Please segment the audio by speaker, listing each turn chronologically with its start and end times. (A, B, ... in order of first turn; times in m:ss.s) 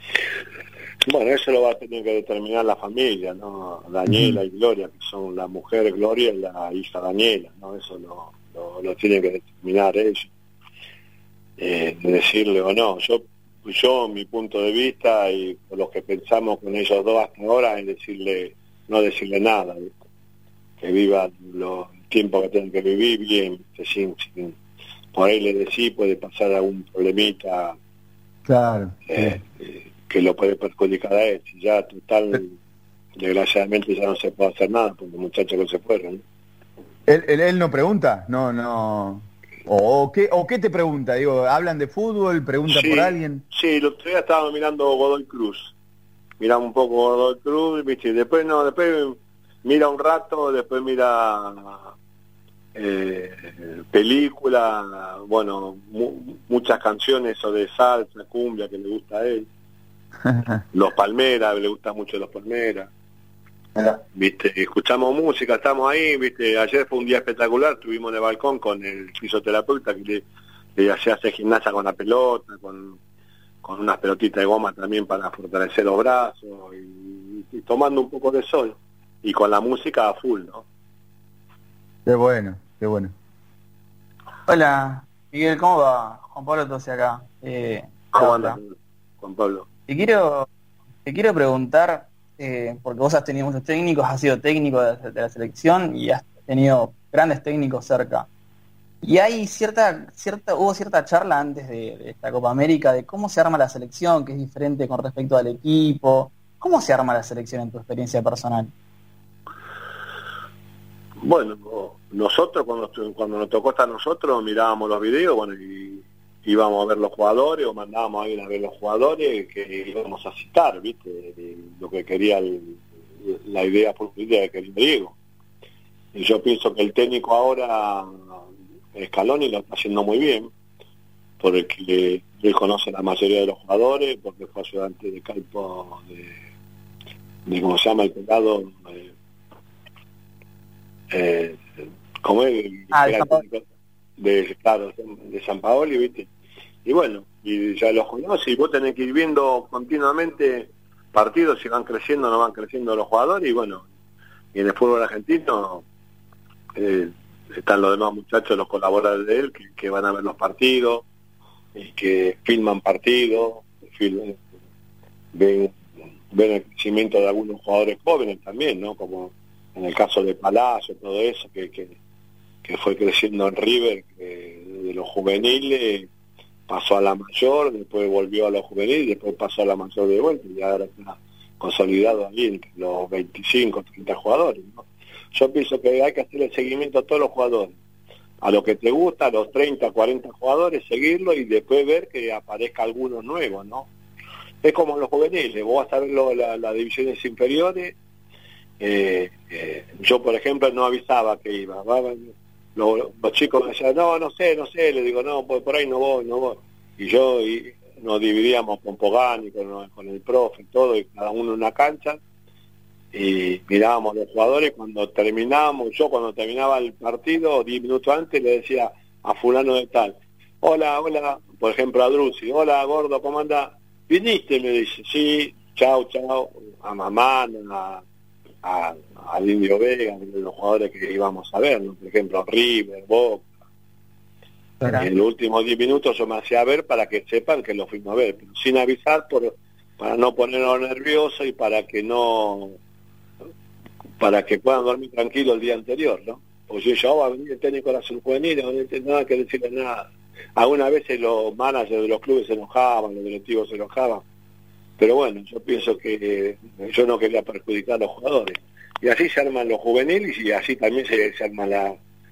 0:01.0-0:10.3 A
0:04.1-0:04.4 B
0:11.6-0:19.9 A
0:20.8-0:24.6 A
0:25.1-0:27.8 A
0:28.4-0:29.4 B
0:29.1-0:32.5 A
0:33.2-0:36.2 A
0:37.1-0:43.4 B
0:42.7-0:45.7 A
0:46.4-0:51.8 A
0:52.7-0:59.5 A
1:00.7-1:02.9 A
1:04.1-1:10.2 A
1:10.8-1:13.0 A
1:13.6-1:20.6 A
1:22.0-1:23.1 B
1:24.5-1:28.6 C
1:28.1-1:29.7 A
1:29.9-1:30.4 C
1:31.0-1:38.3 C
1:39.0-1:48.7 C
1:51.2-2:05.1 A
2:06.1-2:08.1 A
2:08.9-2:10.5 A
2:11.4-2:16.3 A
2:17.4-2:19.1 A
2:21.1-2:21.6 A
2:22.2-2:23.6 A
2:22.9-2:23.4 C
2:24.2-2:26.3 A
2:26.8-2:33.8 A
2:34.5-2:35.8 A
2:36.8-2:41.0 A
2:41.7-2:44.4 A
2:45.3-2:45.8 A
2:46.3-2:52.0 A
2:52.6-2:56.1 A
2:56.7-3:07.7 A
3:08.4-3:13.9 A
3:14.6-3:17.9 A
3:18.8-3:32.2 A
3:33.1-3:48.0 A
3:48.6-3:53.5 A
3:54.8-3:55.1 C
3:54.8-4:02.8 A
4:04.2-4:10.0 A
4:10.6-4:14.2 A
4:15.0-4:22.0 A